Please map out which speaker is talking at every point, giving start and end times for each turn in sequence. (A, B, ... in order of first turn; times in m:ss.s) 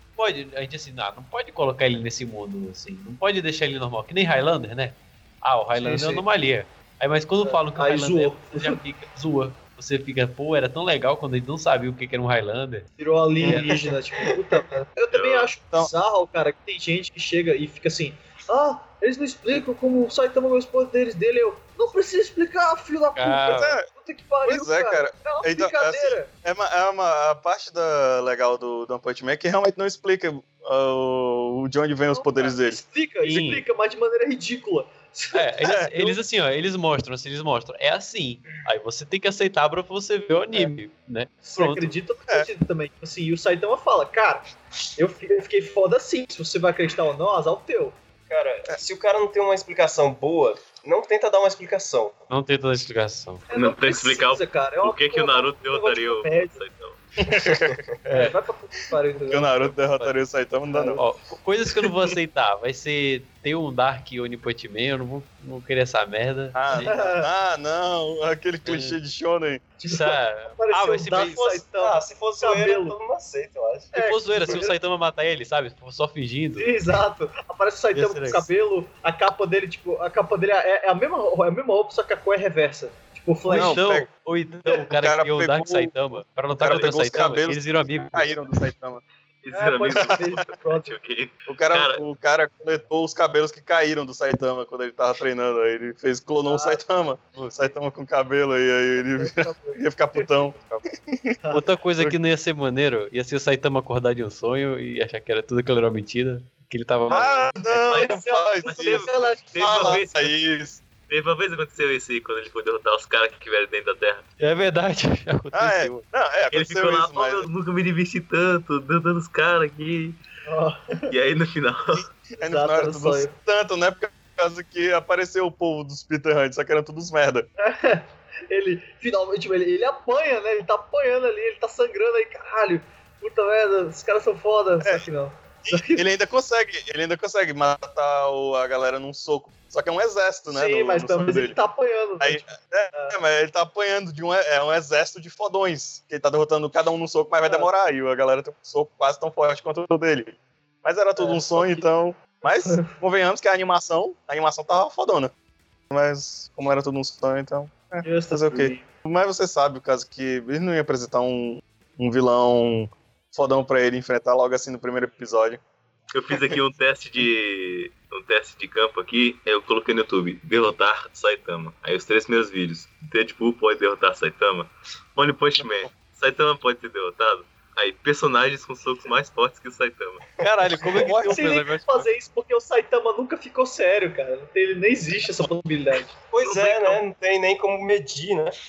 0:00.2-0:12.8 A
0:05.7-0:06.2 B
0:07.4-0:08.8 B
0:13.0-0:26.3 B
0:13.4-0:13.7 A
0:13.4-0:14.6 C
0:15.1-0:15.5 D
0:23.1-0:23.8 A
0:23.5-0:23.9 E
0:24.4-0:32.8 E
0:32.1-0:36.2 B
0:33.2-0:33.6 A
0:35.3-0:42.0 A
0:35.6-0:35.9 E
0:41.5-0:48.0 B
0:48.3-0:52.2 C
0:52.3-0:53.5 A
0:53.5-0:56.6 B
0:53.5-0:57.0 D
0:57.2-0:57.8 E
0:57.3-0:58.0 C
0:58.1-0:58.4 A
0:58.1-0:59.6 B
0:59.3-1:01.0 E
0:59.7-1:07.0 A
1:06.5-1:09.6 E
1:06.8-1:07.3 B
1:08.6-1:08.9 A
1:09.8-1:13.0 B
1:09.8-1:11.6 A
1:11.8-1:13.9 C
1:13.9-1:14.7 B
1:13.9-1:16.8 A
1:16.6-1:23.8 B
1:17.9-1:18.5 A
1:23.5-1:28.4 A
1:23.5-1:24.1 E
1:24.7-1:26.0 E
1:26.6-1:29.0 E
1:29.4-1:32.0 D
1:29.5-1:31.0 B
1:30.0-1:30.4 E
1:31.5-1:41.4 E
1:36.4-1:36.8 B
1:37.3-1:37.7 A
1:39.0-1:40.3 B
1:41.5-1:47.5 A
1:47.1-1:50.8 E
1:47.7-1:50.3 D
1:47.9-1:50.1 B
1:51.1-1:54.2 D
1:54.4-1:56.0 A
1:55.5-1:57.5 E
1:56.5-2:00.2 D
2:00.4-2:01.1 B
2:01.1-2:02.0 D
2:01.9-2:07.5 E
2:02.4-2:03.3 B
2:07.6-2:16.0 B
2:15.6-2:21.6 E
2:20.5-2:23.2 B
2:22.2-2:35.3 E
2:27.4-2:27.7 B
2:31.2-2:31.9 B
2:32.6-2:32.9 B
2:35.9-2:45.6 E
2:38.0-2:38.8 B
2:46.1-3:00.2 D
2:55.6-2:55.9 E
3:00.4-3:01.6 E
3:00.6-3:02.1 A
3:01.2-3:06.1 B
3:06.3-3:08.5 C
3:06.4-3:07.0 D